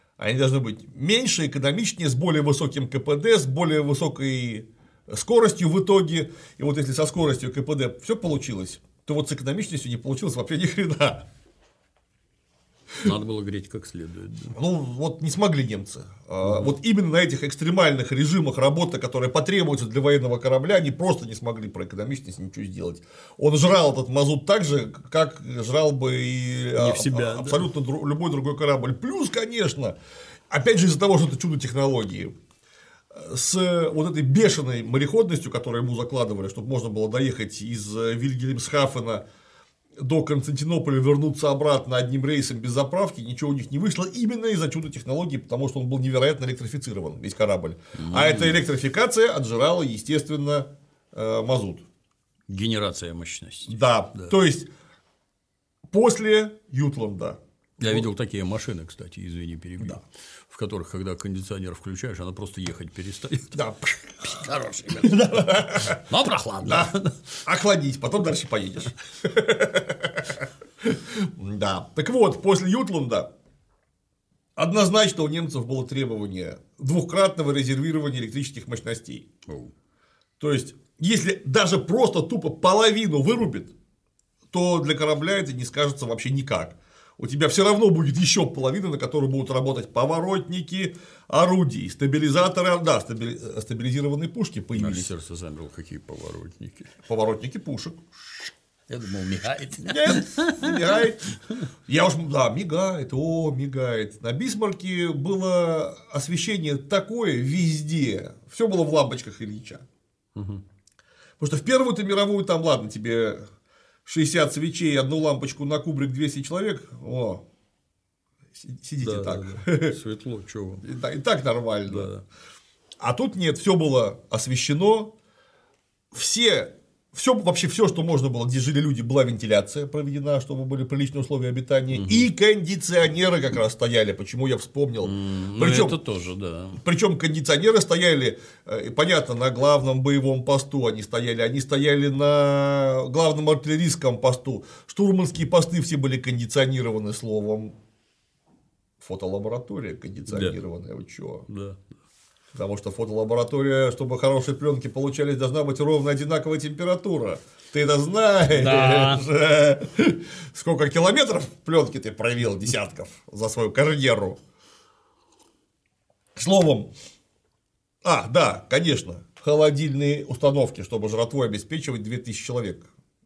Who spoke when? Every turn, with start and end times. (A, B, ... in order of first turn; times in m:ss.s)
0:00.2-0:11.3 A
0:13.0-0:14.6 B
0:14.5-0:30.0 A
0:16.4-0:16.7 B
0:26.8-0:27.6 B
0:30.5-0:32.3 A
0:33.1-0:39.2 A
0:40.0-0:51.8 A
0:48.0-0:48.6 B
0:52.5-0:54.3 B
0:53.7-0:54.7 A
0:55.9-0:58.0 A
0:57.8-1:03.6 B
1:03.5-1:04.4 A
1:04.2-1:07.2 B
1:05.0-1:06.0 A
1:06.6-1:06.9 A
1:07.4-1:13.3 A
1:14.6-1:19.3 A
1:19.4-1:19.7 B
1:20.4-1:23.7 A
1:24.5-1:35.1 A
1:34.8-1:36.9 B
1:37.0-1:38.0 A
1:38.9-1:41.1 B
1:39.8-1:41.3 A
1:41.9-1:49.8 A
1:50.3-1:50.6 B
1:51.4-1:53.4 A
1:54.0-1:57.4 A
1:58.6-2:00.0 A
1:59.0-2:00.8 B
2:00.8-2:02.1 A
2:01.9-2:02.2 B
2:03.0-2:05.1 A
2:06.1-2:16.0 A
2:11.9-2:12.3 B
2:15.0-2:16.8 B
2:16.8-2:27.7 A
2:29.0-2:31.4 A
2:30.3-2:30.6 B
2:31.5-2:31.8 B
2:32.5-2:44.4 A
2:38.5-2:39.3 B
2:46.3-2:46.9 A
2:48.0-2:52.9 A